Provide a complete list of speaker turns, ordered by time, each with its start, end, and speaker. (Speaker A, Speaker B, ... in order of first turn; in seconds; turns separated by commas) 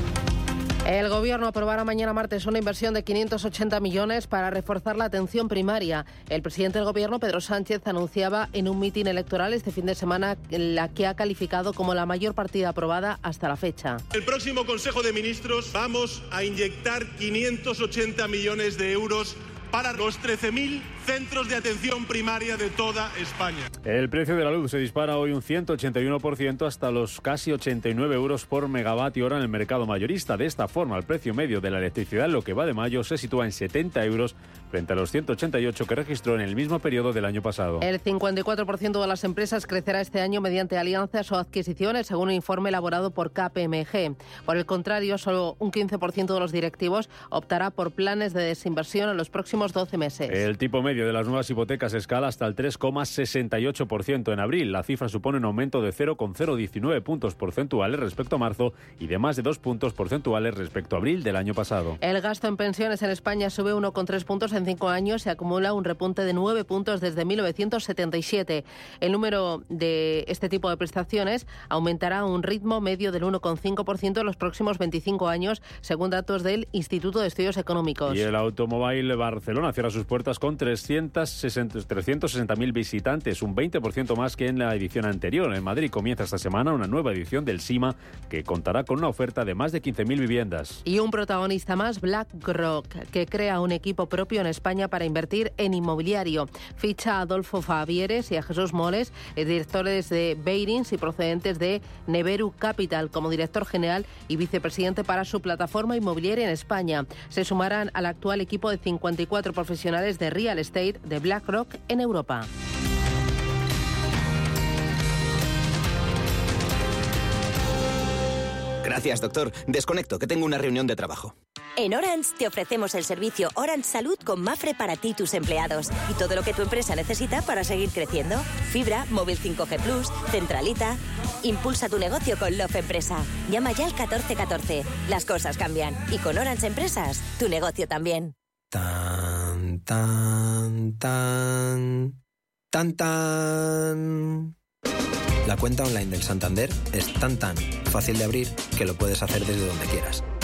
Speaker A: 0.8-14.0, Speaker B: 14.1-23.7, Speaker C: 23.9-37.9, Speaker A: 37.8-50.4, Speaker C: 50.3-62.0, Speaker A: 62.0-78.2, Speaker C: 78.1-90.8, Speaker A: 90.8-112.5, Speaker D: 118.8-121.3, Speaker E: 121.8-138.3, Speaker F: 138.7-142.2, Speaker F: 142.7-144.5, Speaker F: 145.4-150.2